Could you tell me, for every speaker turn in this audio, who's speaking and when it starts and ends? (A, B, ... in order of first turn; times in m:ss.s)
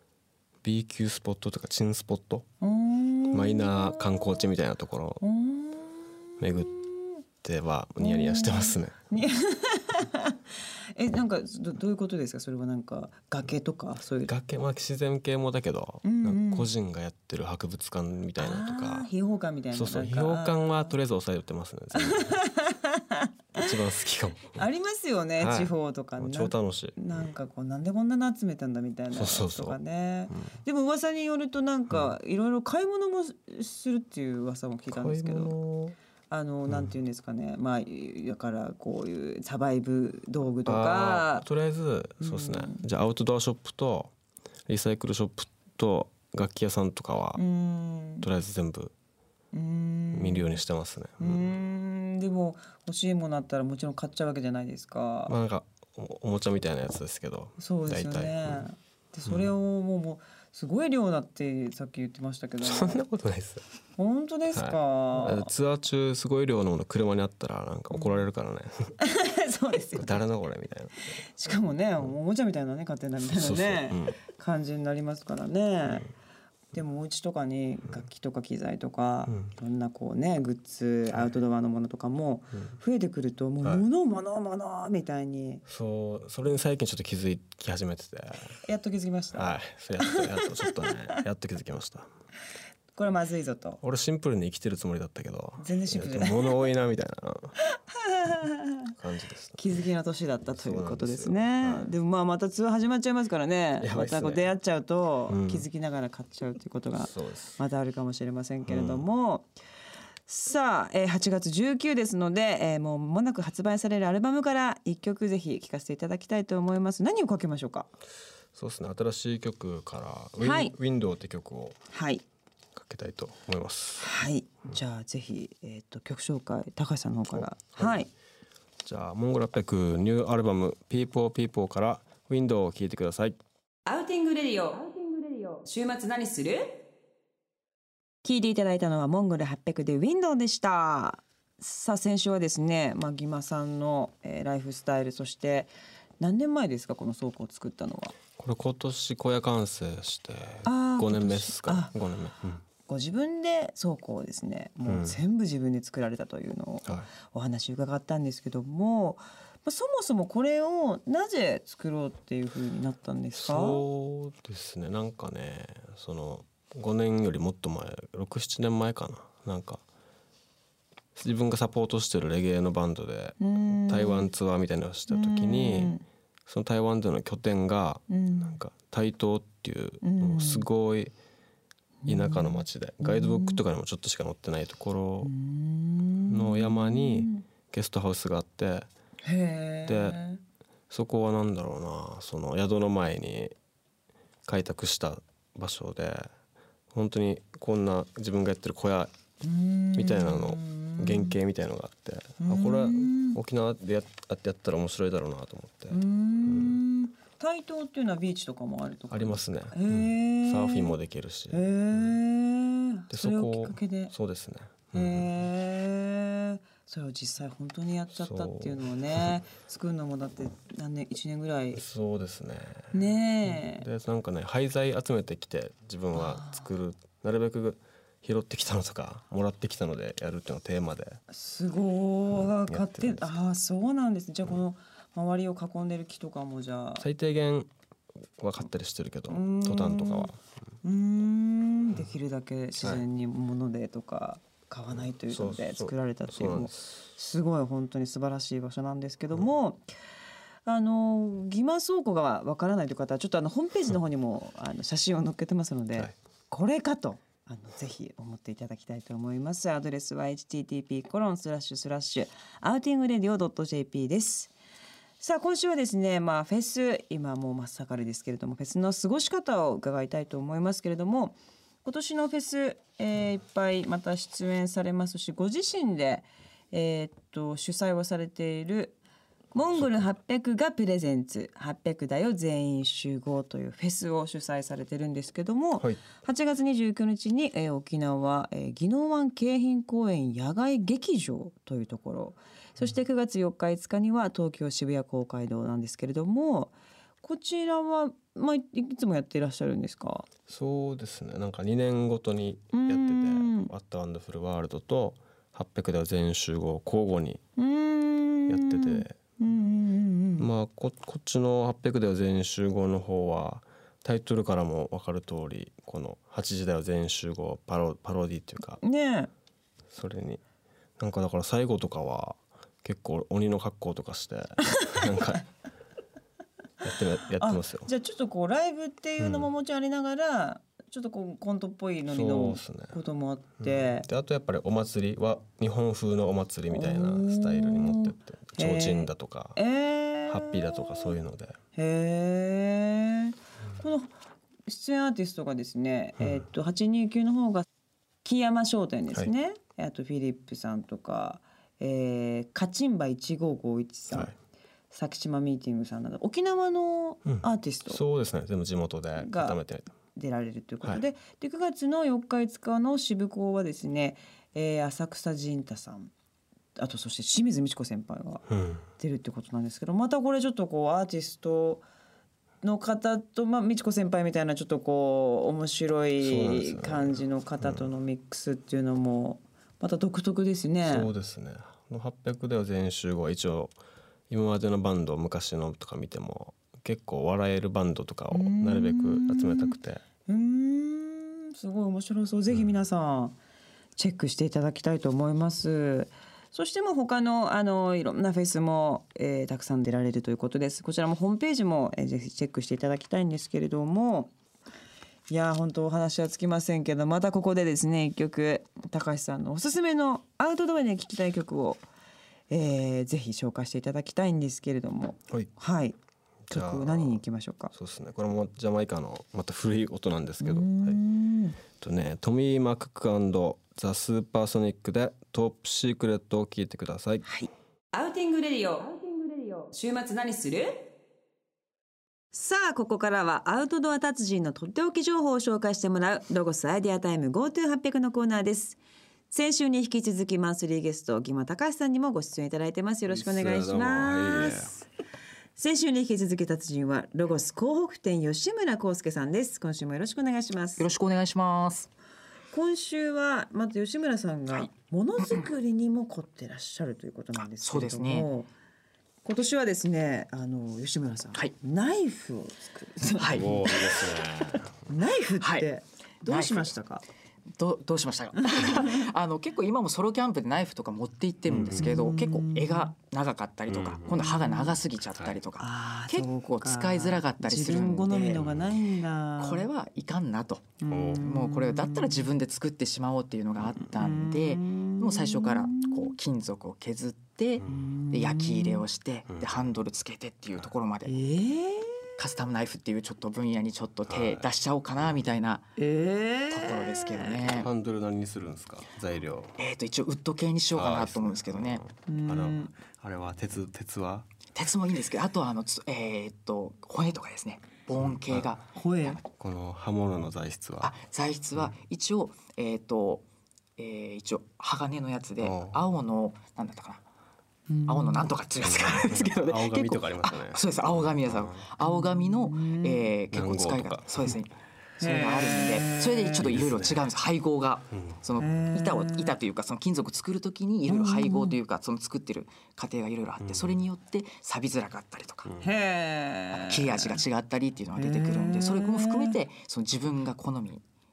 0:00.6-0:02.5 A
0:02.6-0:04.5 B
0:03.3-0:05.2 A
0:05.2-0:07.1 B
0:06.4-0:06.8 A
0:07.4-0:09.0 A
0:08.0-0:10.4 B
0:11.0-0:14.3 B
0:14.3-0:19.1 A
0:16.0-0:16.7 B
0:18.4-0:21.0 B
0:19.7-0:22.4 A
0:22.0-0:23.7 B
0:23.6-0:24.6 A
0:24.5-0:35.5 B
0:25.4-0:27.0 A
0:29.1-0:29.8 A
0:34.9-0:36.0 A
0:36.3-0:41.4 B
0:40.7-0:44.1 A
0:42.2-0:42.8 B
0:44.7-0:47.4 A
0:47.4-0:48.3 B
0:48.2-0:48.9 A
0:49.5-0:50.5 B
0:50.2-0:51.5 A
0:51.2-0:55.4 B
0:55.3-0:58.6 A
0:57.6-1:03.0 B
0:59.3-0:59.5 A
1:02.6-1:03.6 A
1:04.0-1:05.5 B
1:04.5-1:09.0 A
1:07.9-1:08.2 B
1:09.0-1:10.2 B
1:10.0-1:11.1 A
1:11.4-1:16.1 B
1:13.2-1:14.2 A
1:16.7-1:25.6 B
1:25.7-1:28.6 A
1:28.6-1:31.2 B
1:29.4-1:32.1 A
1:33.0-1:33.8 B
1:33.8-1:37.6 A
1:35.6-1:36.6 B
1:37.6-1:38.9 B
1:39.0-1:39.6 A
1:39.6-1:49.5 B
1:40.6-1:41.9 A
1:43.8-1:44.5 A
1:45.3-1:45.6 A
1:47.0-1:47.6 A
1:48.6-1:49.0 A
1:50.3-1:57.9 B
1:58.5-2:01.8 A
2:00.4-2:00.7 B
2:01.9-2:02.2 B
2:02.8-2:04.1 A
2:04.0-2:08.1 B
2:07.4-2:08.0 A
2:08.8-2:13.4 A
2:13.9-2:16.8 B
2:18.2-2:28.2 B
2:28.4-2:32.6 A
2:30.7-2:31.9 B
2:32.9-2:43.8 B
2:34.9-2:35.2 A
2:43.3-2:49.8 A
2:51.2-3:01.1 A
2:53.4-2:54.3 B
2:55.1-2:56.0 B
2:58.1-2:58.6 B
3:00.0-3:00.6 B
3:02.0-3:03.6 B
3:02.1-3:05.3 A
3:05.2-3:07.4 B
3:06.3-3:08.9 A
3:09.2-3:10.4 B
3:09.9-3:10.2 A
3:10.9-3:13.5 A
3:14.5-3:16.3 A
3:16.9-3:19.1 A
3:19.4-3:21.4 B
3:20.0-3:26.8 A
3:22.4-3:23.4 B
3:25.9-3:30.9 B
3:29.1-3:32.1 A
3:31.5-3:34.1 B
3:33.1-3:35.3 A
3:34.9-3:41.8 B
3:38.2-3:39.3 A
3:41.7-3:42.9 A
3:42.9-3:43.9 B
3:43.5-3:51.2 A
3:46.2-3:46.7 B
3:51.3-3:57.1 B
3:52.7-3:53.3 A
3:57.0-3:57.7 A
3:58.4-4:00.4 A
3:59.3-4:00.3 B
4:00.8-4:09.8 B
4:02.8-4:03.0 A
4:05.3-4:06.9 A
4:10.7-4:24.5 B
4:25.2-4:39.0 B
4:39.5-5:00.3 B
4:39.8-4:40.0 A
5:00.5-5:07.4 A
5:02.7-5:03.7 B
5:07.6-5:10.5 B
5:08.5-5:09.2 A
5:10.4-5:18.8 A
5:18.8-5:19.3 B
5:19.9-5:20.4 A
5:21.0-5:25.5 A
5:26.8-5:27.9 A
5:27.4-5:34.1 B
5:29.2-5:29.5 A
5:32.1-5:33.0 A
5:33.6-5:39.6 A
5:36.7-5:41.2 B
5:40.3-5:41.6 A
5:41.8-5:44.1 B
5:44.7-5:47.7 B
5:48.2-5:54.3 B
5:54.9-5:58.0 B
5:57.3-5:59.9 A
5:59.2-5:59.6 B
6:00.1-6:06.1 B
6:06.8-6:08.4 B
6:08.5-6:08.8 A
6:09.0-6:11.9 B
6:12.6-6:21.1 B
6:16.2-6:17.9 A
6:20.9-6:23.7 A
6:24.3-6:30.0 A
6:28.3-6:33.4 B
6:34.0-6:44.3 B
6:45.3-6:51.8 B
6:52.5-6:56.0 B
6:56.5-7:01.0 A
6:56.5-6:57.7 B
7:00.4-7:01.6 B
7:01.8-7:07.2 A
7:07.2-7:10.9 B
7:12.3-7:18.8 B
7:19.3-7:24.8 B
7:23.1-7:24.8 A
7:25.6-7:30.9 B
7:30.8-7:31.9 C
7:32.5-7:38.5 B
7:37.4-7:38.3 C
7:39.2-7:47.0 B
7:43.2-7:43.5 C
7:43.2-7:44.7 A
7:45.4-7:45.7 C
7:46.3-7:46.7 C
7:47.5-7:58.4 C
7:48.4-7:49.1 B
7:51.5-7:51.9 A
7:51.7-7:52.9 B
7:53.7-7:54.2 A
7:54.1-7:54.8 B
7:55.6-7:59.7 B
7:58.4-7:58.8 A
7:59.4-8:11.2 C
8:00.8-8:02.3 B
8:00.9-8:01.3 A
8:04.0-8:06.1 B
8:07.6-8:07.9 A
8:07.7-8:08.9 B
8:09.3-8:09.7 A
8:11.1-8:12.1 B
8:12.2-8:15.7 C
8:14.1-8:14.5 A
8:15.8-8:17.5 B
8:16.5-8:17.7 C
8:17.5-8:19.6 A
8:19.6-8:21.8 C
8:20.8-8:24.3 A
8:22.1-8:22.7 B
8:24.6-8:29.2 C
8:28.0-8:28.5 A
8:28.8-8:29.2 B
8:29.3-8:31.0 A
8:30.8-8:33.2 C
8:33.8-8:37.0 C
8:35.4-8:35.8 A
8:37.7-8:38.3 B
8:37.9-8:55.5 C
8:38.6-8:41.6 A
8:41.8-8:43.1 B
8:43.3-8:44.4 A
8:45.0-8:46.5 B
8:46.3-8:47.1 A
8:48.4-8:49.4 B
8:50.9-8:51.6 B
8:53.4-8:53.8 A
8:55.6-8:57.2 B
8:56.5-9:00.8 C
8:58.0-8:59.4 B